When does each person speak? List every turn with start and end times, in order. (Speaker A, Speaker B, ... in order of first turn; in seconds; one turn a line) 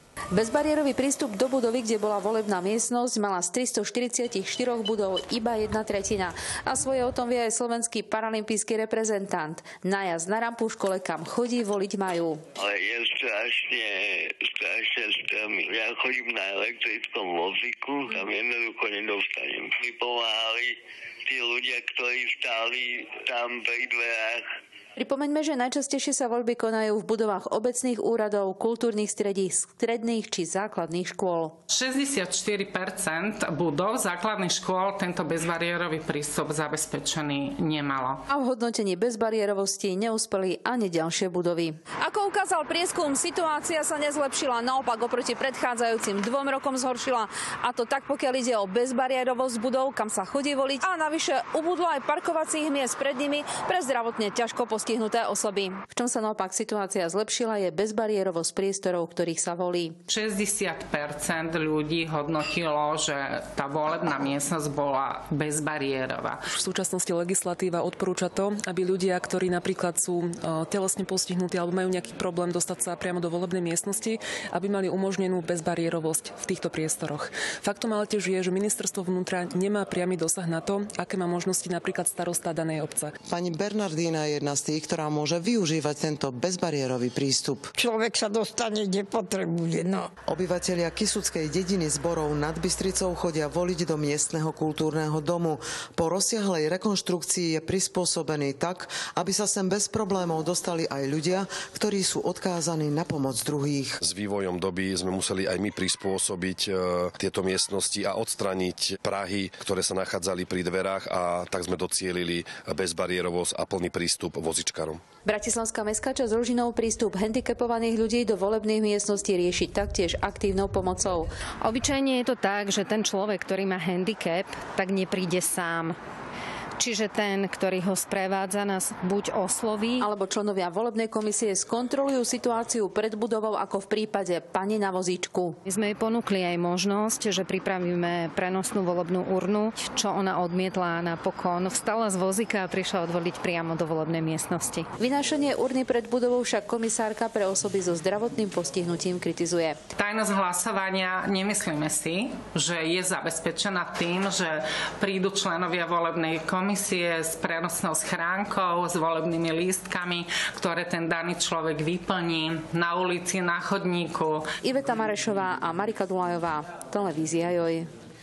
Speaker A: 0.3-12.4
Speaker B: 12.6-24.5
Speaker A: 25.0-31.6
Speaker C: 31.7-38.2
Speaker A: 38.3-44.1
Speaker A: 48.1-49.0
Speaker A: 49.6-50.8
Speaker A: 52.5-53.2
Speaker A: 55.8-60.0
Speaker C: 60.1-66.4
Speaker D: 66.5-83.1
Speaker E: 83.3-87.7
Speaker F: 87.8-90.1
Speaker E: 90.3-104.0
Speaker G: 104.0-115.0
Speaker A: 115.2-121.3
Speaker H: 121.6-125.9
Speaker H: 126.8-130.1
Speaker A: 130.0-135.6
Speaker H: 135.7-144.8
Speaker A: 145.0-149.8
Speaker C: 150.0-164.4
Speaker A: 164.6-167.9